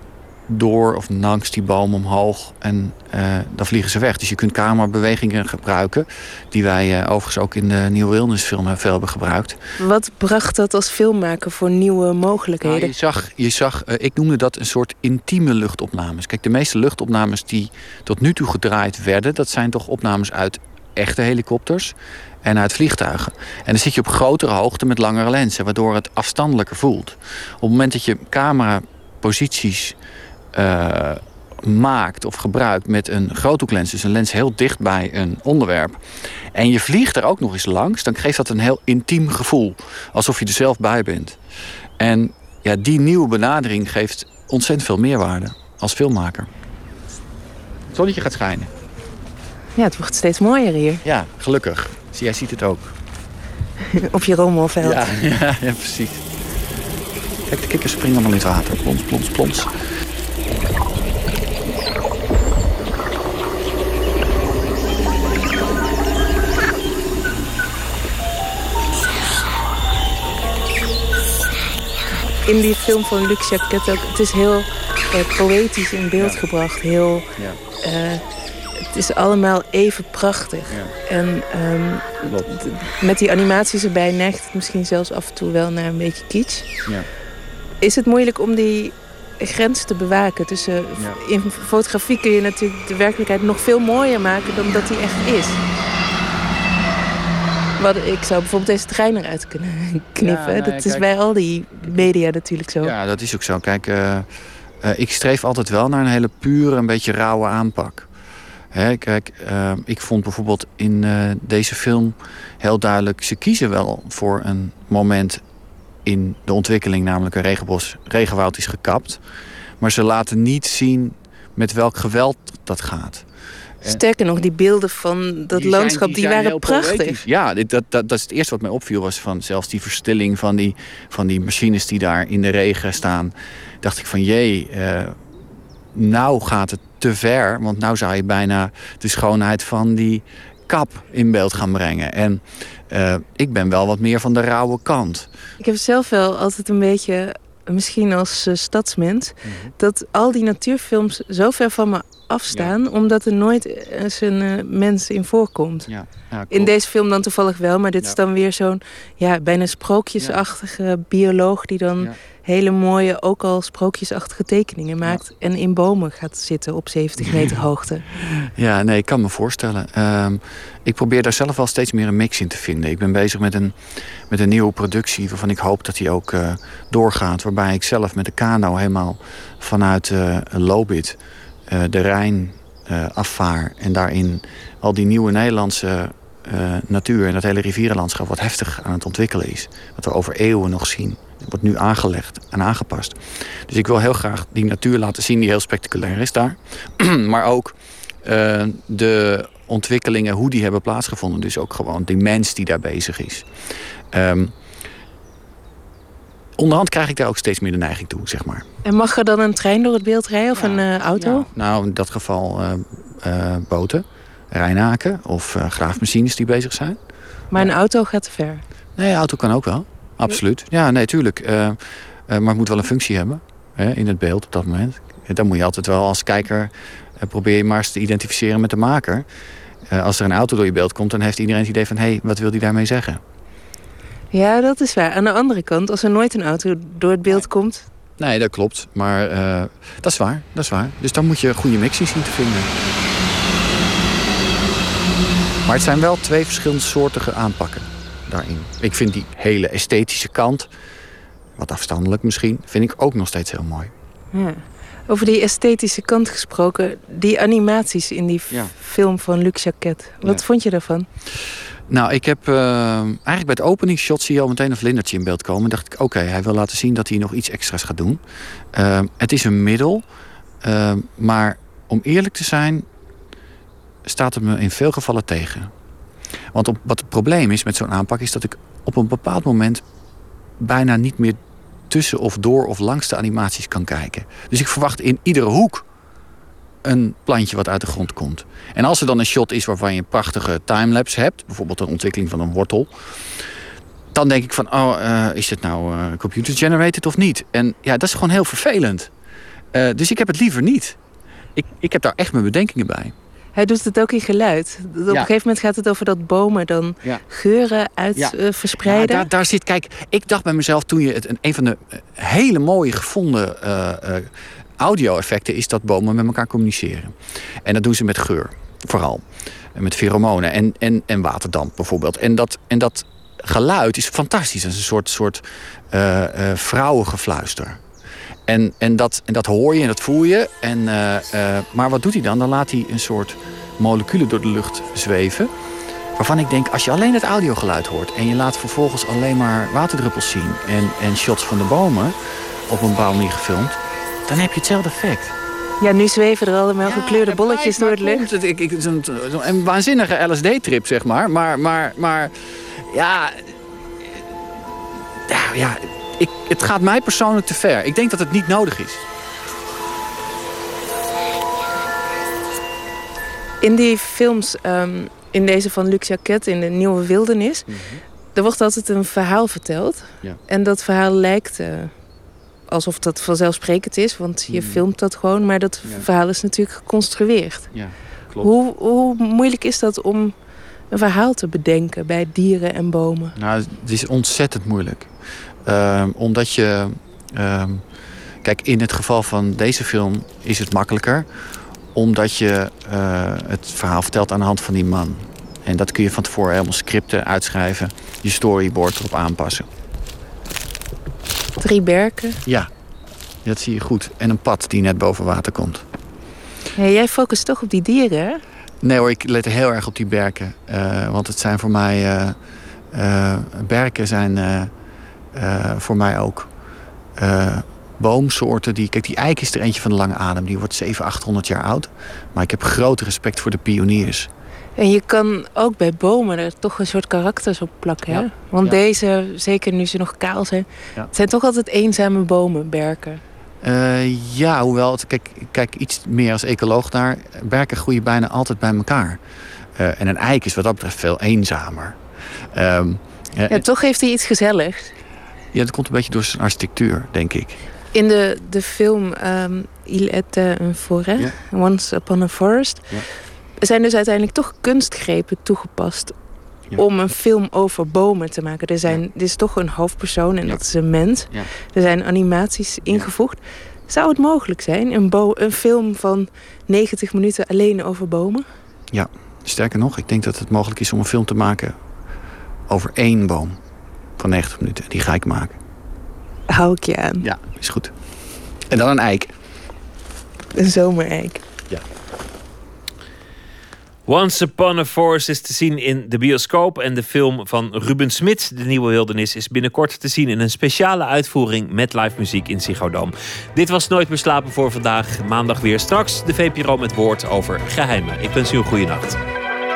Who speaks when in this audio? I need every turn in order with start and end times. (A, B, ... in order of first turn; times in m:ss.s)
0:00.5-0:09.6 A
0:09.8-0:12.9 B
0:12.6-0:30.0 A
0:30.5-0:36.0 A
0:36.5-0:41.4 A
0:42.0-0:46.5 A
0:47.9-0:48.7 A
0:49.8-0:51.0 B
0:51.0-0:52.9 A
0:54.0-0:55.1 B
0:54.8-0:56.2 A
0:57.5-0:59.7 A
1:12.4-1:17.3 B
1:16.2-1:16.4 A
1:17.8-1:18.2 B
1:18.9-1:26.7 B
1:20.7-1:20.9 A
1:27.8-1:35.6 B
1:37.8-1:42.9 B
1:40.2-1:41.2 A
1:41.7-1:42.2 A
1:42.8-1:44.3 A
1:44.8-1:48.1 A
1:48.7-1:55.4 A
1:56.0-1:59.2 A
1:59.8-2:03.2 A
2:03.8-2:07.2 B
2:05.5-2:15.2 A
2:15.9-2:25.3 A
2:25.6-2:35.9 B
2:29.4-2:29.7 A
2:32.5-2:32.7 A
2:35.9-2:36.7 A
2:36.5-2:48.0 B
2:40.2-2:40.4 A
2:47.2-2:47.6 A
2:48.5-3:23.5 A
3:24.1-3:24.5 A
3:26.6-3:28.6 A
3:28.8-3:31.5 B
3:30.5-3:37.0 A
3:37.5-3:37.8 A
3:37.5-3:38.6 B
3:39.0-3:49.3 A
3:49.9-3:53.2 A
3:54.3-3:57.8 B
3:58.2-4:02.7 A
4:05.6-4:10.7 A
4:11.6-4:13.9 A
4:14.3-4:21.1 B
4:18.5-4:18.7 A
4:20.2-4:20.5 A
4:21.9-4:28.2 A
4:28.7-4:30.1 A
4:30.6-4:32.9 A
4:34.0-4:35.7 A
4:36.5-4:39.8 A
4:40.6-4:45.8 A
4:46.8-4:52.9 A
4:54.1-4:59.1 A
4:59.7-5:01.0 A
5:01.5-5:03.1 A
5:03.5-5:09.3 B
5:08.1-5:27.8 A
5:28.5-5:35.5 A
5:36.2-5:42.2 A
5:42.7-5:45.3 A
5:45.8-5:48.2 B
5:46.8-5:53.5 A
5:55.3-5:59.0 A
6:03.6-6:07.7 B
6:07.7-6:08.0 A
6:08.3-6:11.9 B
6:12.7-6:17.9 B
6:14.5-6:14.8 A
6:17.7-6:18.6 A
6:18.4-6:20.3 B
6:20.9-6:23.4 B
6:23.4-6:25.1 A
6:25.6-6:27.8 A
6:28.4-6:31.3 A
6:31.9-6:39.7 A
6:41.6-6:42.4 B
6:43.4-6:45.8 A
6:46.8-6:48.4 B
6:48.8-6:52.4 A
6:52.9-6:54.7 A
6:55.3-6:56.5 A
6:57.2-7:04.3 A
7:04.8-7:13.2 B
7:08.1-7:08.8 A
7:13.6-7:19.2 A
7:19.8-7:22.0 A
7:22.5-7:23.6 A
7:23.5-7:24.9 B
7:25.5-7:27.6 A
7:27.9-7:33.0 B
7:33.6-7:36.2 B
7:36.8-7:48.4 B
7:40.4-7:41.5 A
7:42.8-7:43.1 A
7:48.9-7:51.8 A
7:52.7-7:53.6 A
7:54.2-7:55.6 A
7:56.5-7:57.2 B
7:57.2-7:57.9 A
7:58.7-7:59.3 A
8:00.6-8:01.4 B
8:04.1-8:19.2 C